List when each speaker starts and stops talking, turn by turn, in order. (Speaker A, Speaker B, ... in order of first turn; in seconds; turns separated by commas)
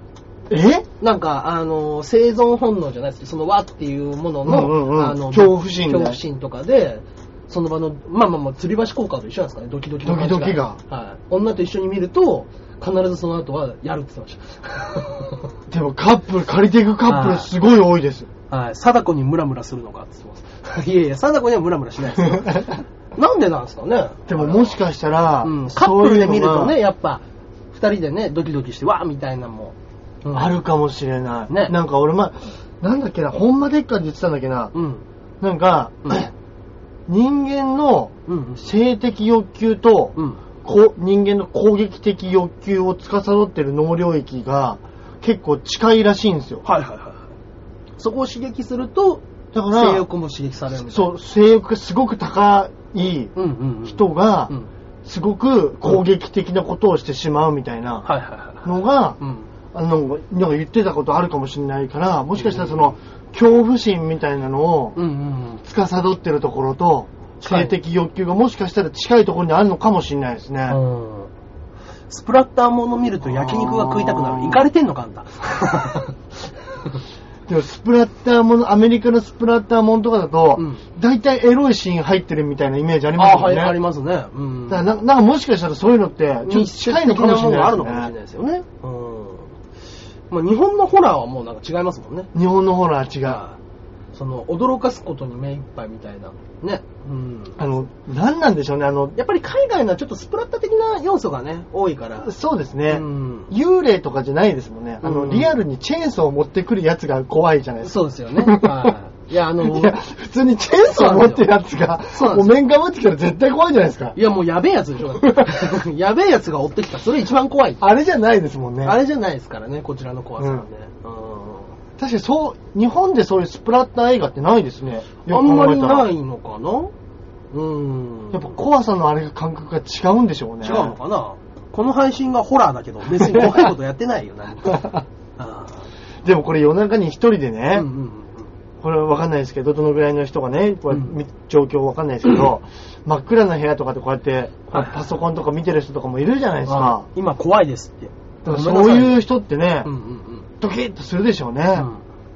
Speaker A: 0.5-0.9, Speaker B: 1.0-15.5, Speaker A: 4.4-6.2, Speaker A: 10.1-10.8, Speaker A: 15.7-18.3, Speaker B: 17.1-17.5, Speaker B: 18.5-24.8, Speaker A: 22.3-22.7, Speaker A: 24.3-26.8, Speaker B: 25.4-30.6, Speaker A: 30.3-34.7, Speaker B: 31.5-31.8, Speaker B: 34.7-35.0, Speaker A: 35.4-36.3, Speaker B: 36.0-36.3, Speaker A: 37.1-46.6, Speaker B: 38.3-38.7, Speaker B: 40.1-40.4, Speaker B: 46.6-47.3, Speaker B: 48.0-51.1, Speaker A: 49.5-50.1, Speaker A: 50.7-53.3, Speaker B: 53.4-54.7, Speaker A: 53.9-54.5, Speaker A: 55.0-58.1, Speaker B: 58.0-59.5, Speaker A: 58.6-59.2, Speaker A: 59.7-65.0, Speaker B: 62.4-62.9, Speaker B: 65.0-65.6, Speaker A: 65.6-70.8, Speaker B: 67.4-67.8, Speaker B: 70.7-71.3, Speaker B: 72.1-77.0, Speaker A: 73.2-74.6, Speaker A: 77.5-83.8, Speaker B: 80.6-80.8, Speaker B: 83.2-85.0, Speaker A: 84.7-88.1, Speaker B: 86.4-89.6, Speaker B: 90.3-92.3, Speaker A: 92.3-93.4, Speaker B: 93.2-93.6, Speaker B: 94.1-97.7, Speaker A: 97.6-99.1, Speaker B: 99.2-102.3, Speaker A: 102.2-108.9, Speaker B: 102.9-103.5, Speaker B: 105.0-105.6, Speaker B: 107.8-110.0, Speaker A: 109.6-114.2, Speaker B: 110.8-111.5, Speaker B: 112.1-112.5, Speaker B: 114.1-117.8, Speaker A: 115.2-115.7, Speaker A: 117.8-119.0, Speaker B: 118.8-121.7, Speaker A: 120.4-120.7, Speaker A: 122.0-126.1, Speaker B: 125.3-126.9, Speaker B: 127.5-128.6, Speaker A: 128.3-130.9, Speaker B: 130.6-135.9, Speaker A: 133.2-133.7, Speaker A: 134.7-135.0, Speaker A: 136.2-137.9, Speaker B: 137.7-138.5, Speaker A: 138.8-147.1, Speaker B: 140.9-141.2, Speaker B: 144.7-145.1, Speaker B: 146.7-149.2, Speaker A: 148.4-149.9, Speaker B: 149.8-150.5, Speaker A: 150.6-151.9, Speaker B: 151.7-152.0